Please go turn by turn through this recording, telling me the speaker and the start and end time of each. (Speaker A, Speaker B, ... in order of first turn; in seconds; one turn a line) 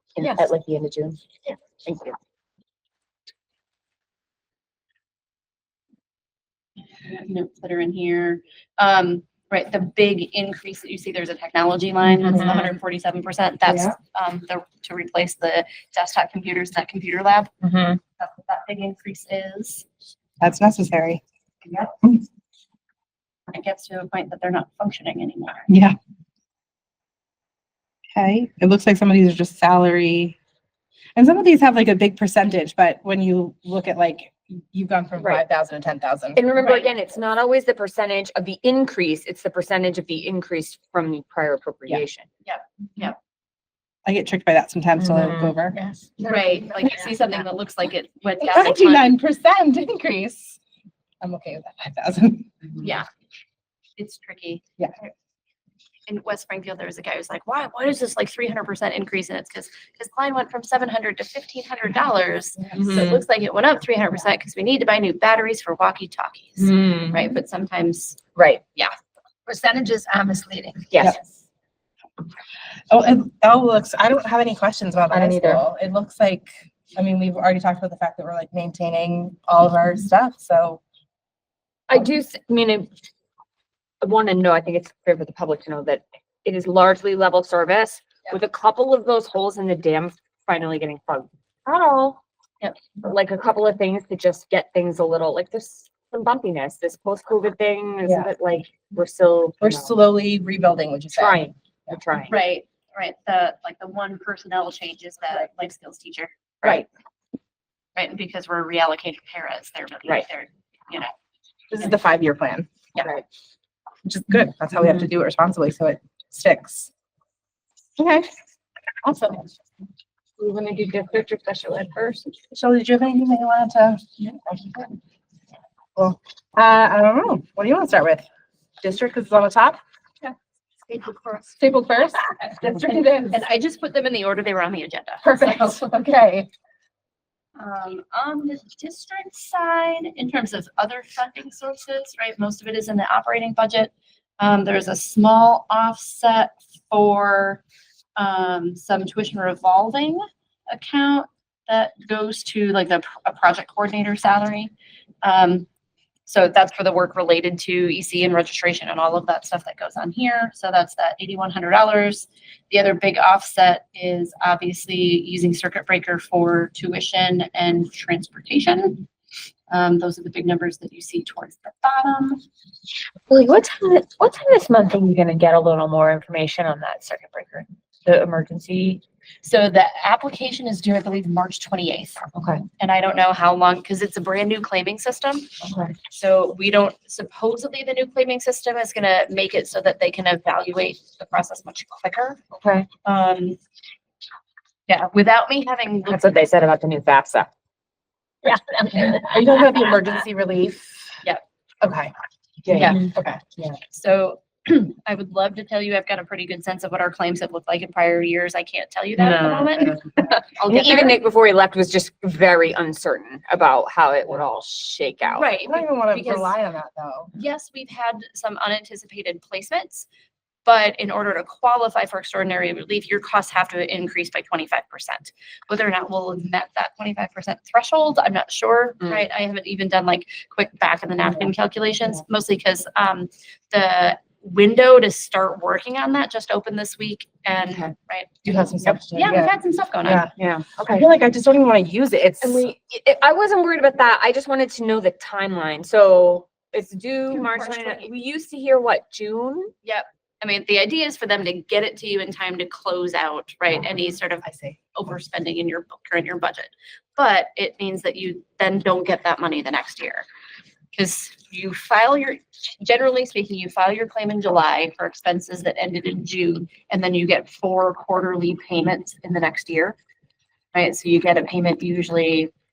Speaker A: 0.2-1.2
Speaker B: 0.2-0.5
Speaker A: 1.8-2.2
Speaker C: 7.0-17.5
Speaker B: 13.7-13.9
Speaker A: 17.6-18.0
Speaker C: 18.2-19.9
Speaker B: 20.4-21.2
Speaker C: 23.5-25.7
Speaker B: 25.7-25.9
Speaker B: 28.1-30.4
Speaker B: 31.2-36.4
Speaker A: 35.2-35.4
Speaker A: 36.4-42.3
Speaker C: 36.6-36.9
Speaker C: 42.5-43.2
Speaker B: 44.0-45.8
Speaker A: 45.0-45.5
Speaker D: 45.7-47.1
Speaker C: 46.2-49.1
Speaker B: 48.4-50.6
Speaker B: 51.2-52.6
Speaker C: 52.8-53.1
Speaker C: 54.0-54.6
Speaker C: 56.1-68.2
Speaker A: 62.8-63.2
Speaker A: 66.6-67.3
Speaker A: 68.4-68.6
Speaker D: 69.5-71.1
Speaker A: 70.9-71.2
Speaker B: 72.9-80.8
Speaker A: 75.1-75.6
Speaker A: 81.9-82.9
Speaker A: 84.0-92.2
Speaker A: 93.0-100.0
Speaker B: 98.0-98.3
Speaker B: 99.6-101.4
Speaker A: 101.1-102.3
Speaker C: 102.3-106.8
Speaker C: 108.0-111.1
Speaker B: 111.7-112.7
Speaker B: 114.0-116.9
Speaker B: 118.0-118.3
Speaker A: 120.4-122.3
Speaker B: 122.5-124.7
Speaker B: 126.0-128.3
Speaker B: 128.8-129.8
Speaker C: 130.9-131.2
Speaker B: 131.4-133.4
Speaker C: 133.3-135.8
Speaker B: 135.2-136.5
Speaker C: 137.6-147.6
Speaker C: 148.2-155.7
Speaker C: 156.3-169.1
Speaker C: 169.7-172.4
Speaker A: 173.3-179.0
Speaker C: 179.4-182.2
Speaker A: 182.3-182.6
Speaker C: 182.8-185.5
Speaker A: 185.6-186.0
Speaker C: 186.1-192.4
Speaker A: 192.6-192.9
Speaker C: 193.0-193.6
Speaker C: 194.9-196.4
Speaker A: 196.1-197.5
Speaker A: 198.5-199.3
Speaker B: 198.9-201.0
Speaker B: 201.8-202.1
Speaker A: 202.7-203.1
Speaker B: 202.7-203.7
Speaker C: 203.9-211.2
Speaker A: 209.2-210.0
Speaker A: 210.7-215.5
Speaker C: 215.3-216.5
Speaker B: 215.6-217.3
Speaker C: 217.3-220.1
Speaker C: 220.7-240.3
Speaker B: 238.4-239.5
Speaker B: 240.1-240.3
Speaker A: 240.4-241.1
Speaker B: 240.9-242.7
Speaker A: 242.4-249.7
Speaker C: 247.3-248.1
Speaker C: 249.8-260.2
Speaker B: 254.4-254.8
Speaker C: 260.9-270.0
Speaker C: 270.7-272.5